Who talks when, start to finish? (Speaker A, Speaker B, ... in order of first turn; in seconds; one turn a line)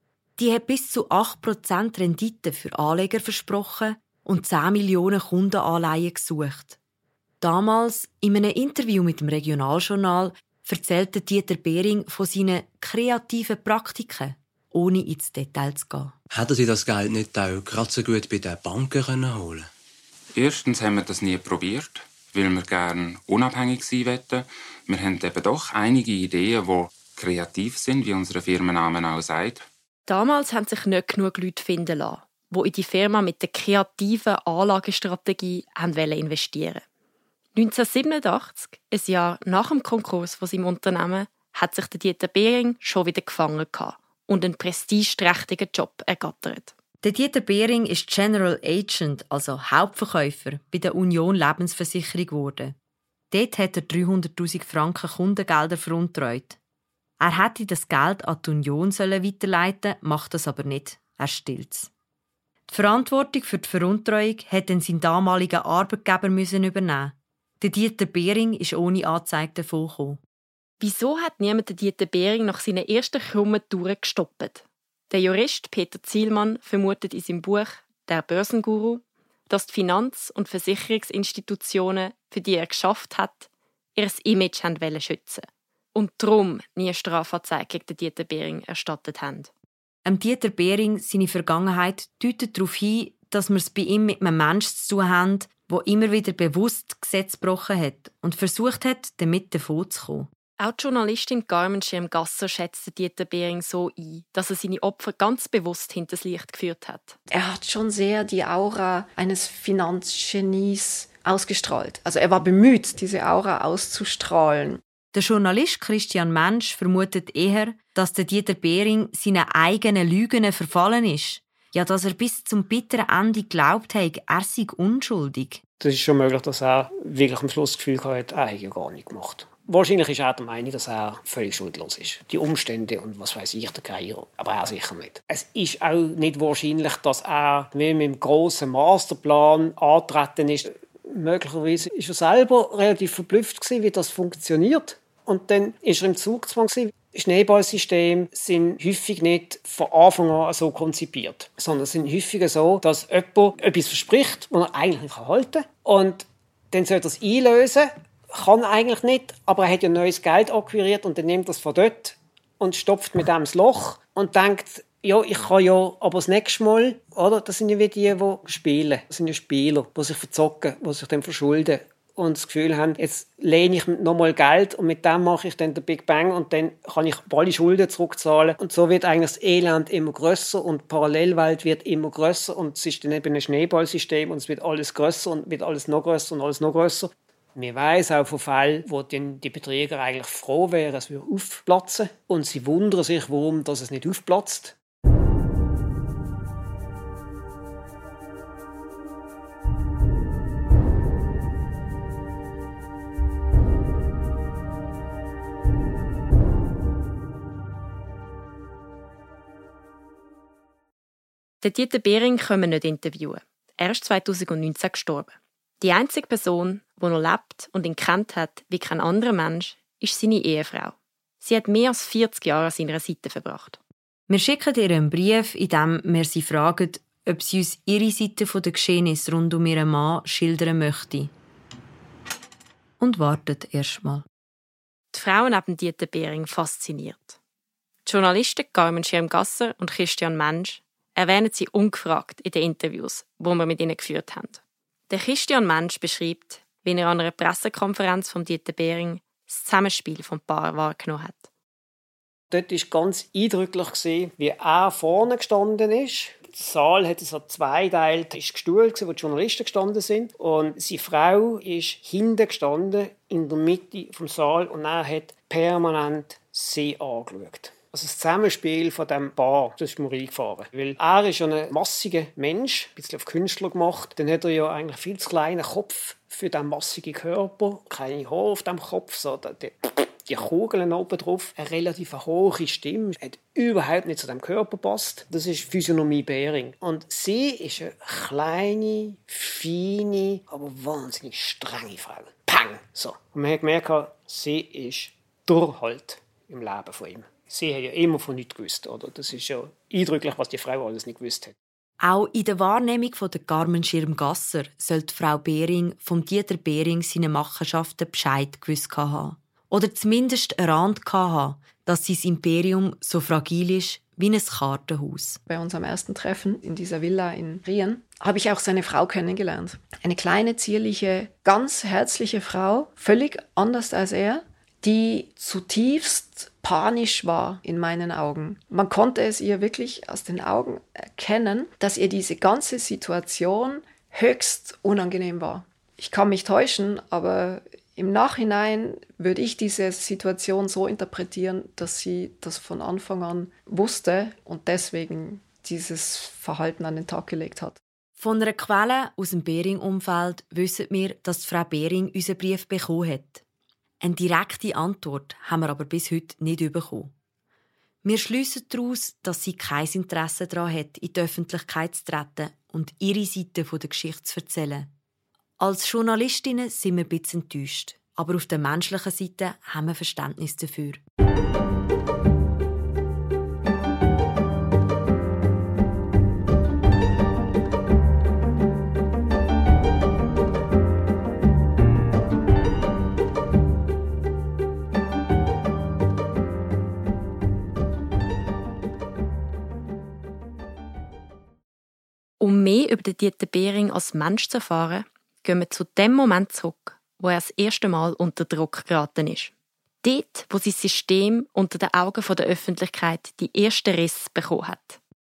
Speaker A: 0.4-6.8
Speaker A: 7.4-16.1
Speaker B: 16.3-19.7
Speaker C: 20.3-29.6
Speaker D: 30.1-36.8
Speaker D: 37.5-46.7
Speaker A: 47.0-52.7
Speaker A: 53.3-56.6
Speaker A: 57.2-61.9
Speaker A: 62.7-70.2
Speaker D: 70.8-89.5
Speaker A: 90.0-100.3
Speaker D: 100.6-107.2
Speaker E: 107.3-114.8
Speaker A: 115.1-125.6
Speaker F: 125.8-194.7
Speaker D: 211.6-223.8
Speaker A: 224.3-231.3
Speaker A: 233.0-234.2
Speaker D: 235.1-237.4
Speaker D: 238.0-251.5
Speaker F: 252.5-301.5
Speaker A: 302.0-315.4
Speaker E: 315.5-347.8
Speaker A: 348.2-353.4
Speaker A: 354.0-357.1
Speaker A: 358.0-364.9
Speaker A: 365.6-371.0
Speaker D: 392.4-399.5
Speaker D: 400.0-405.0